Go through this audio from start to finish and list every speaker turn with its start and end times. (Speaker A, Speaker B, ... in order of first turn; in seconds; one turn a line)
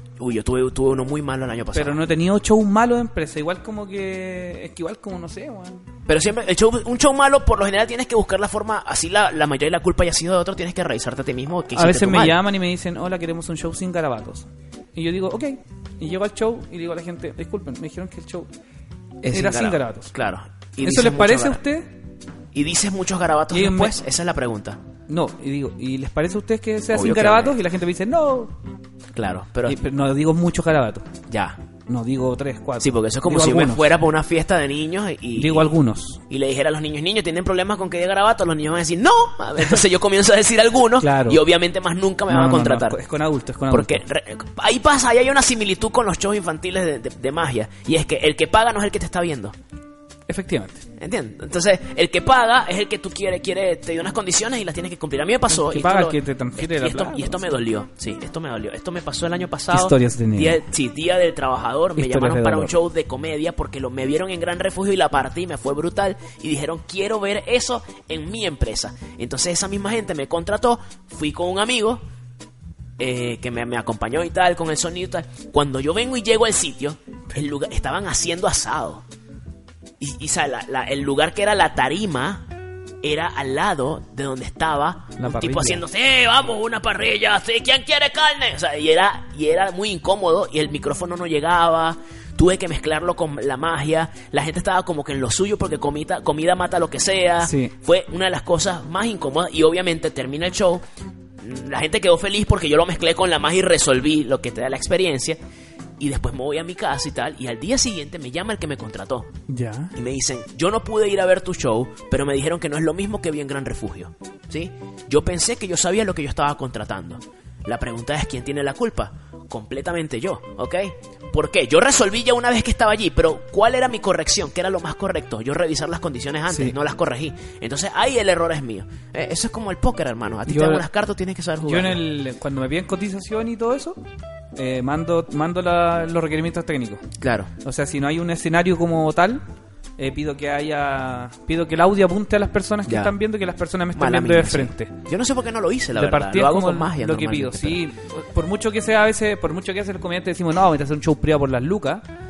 Speaker A: 0.2-2.0
Speaker B: 1.7-5.8
Speaker A: 6.1-12.4
Speaker B: 11.7-18.5
Speaker A: 19.2-21.6
Speaker B: 19.3-20.1
Speaker B: 20.8-21.9
Speaker A: 22.5-24.8
Speaker B: 23.5-24.0
Speaker B: 25.1-28.5
Speaker A: 26.9-27.6
Speaker A: 29.1-29.8
Speaker B: 29.6-31.0
Speaker A: 31.3-31.6
Speaker B: 31.9-33.9
Speaker A: 32.8-35.7
Speaker B: 35.4-36.2
Speaker A: 36.3-43.0
Speaker B: 41.0-41.4
Speaker B: 42.3-44.0
Speaker A: 43.7-49.5
Speaker B: 50.3-50.8
Speaker A: 51.0-72.0
Speaker B: 55.5-57.4
Speaker B: 59.7-60.6
Speaker B: 62.0-62.7
Speaker A: 73.0-79.0
Speaker A: 80.0-82.5
Speaker A: 83.0-100.8
Speaker B: 85.2-85.8
Speaker B: 97.4-97.7
Speaker A: 101.4-105.4
Speaker A: 106.0-109.3
Speaker B: 109.5-109.9
Speaker A: 109.9-132.0
Speaker B: 126.5-126.7
Speaker B: 130.5-130.8
Speaker B: 131.6-134.0
Speaker B: 134.6-137.0
Speaker A: 137.2-137.5
Speaker B: 137.6-139.4
Speaker B: 140.0-144.9
Speaker A: 142.9-143.1
Speaker A: 143.9-147.8
Speaker B: 145.9-152.0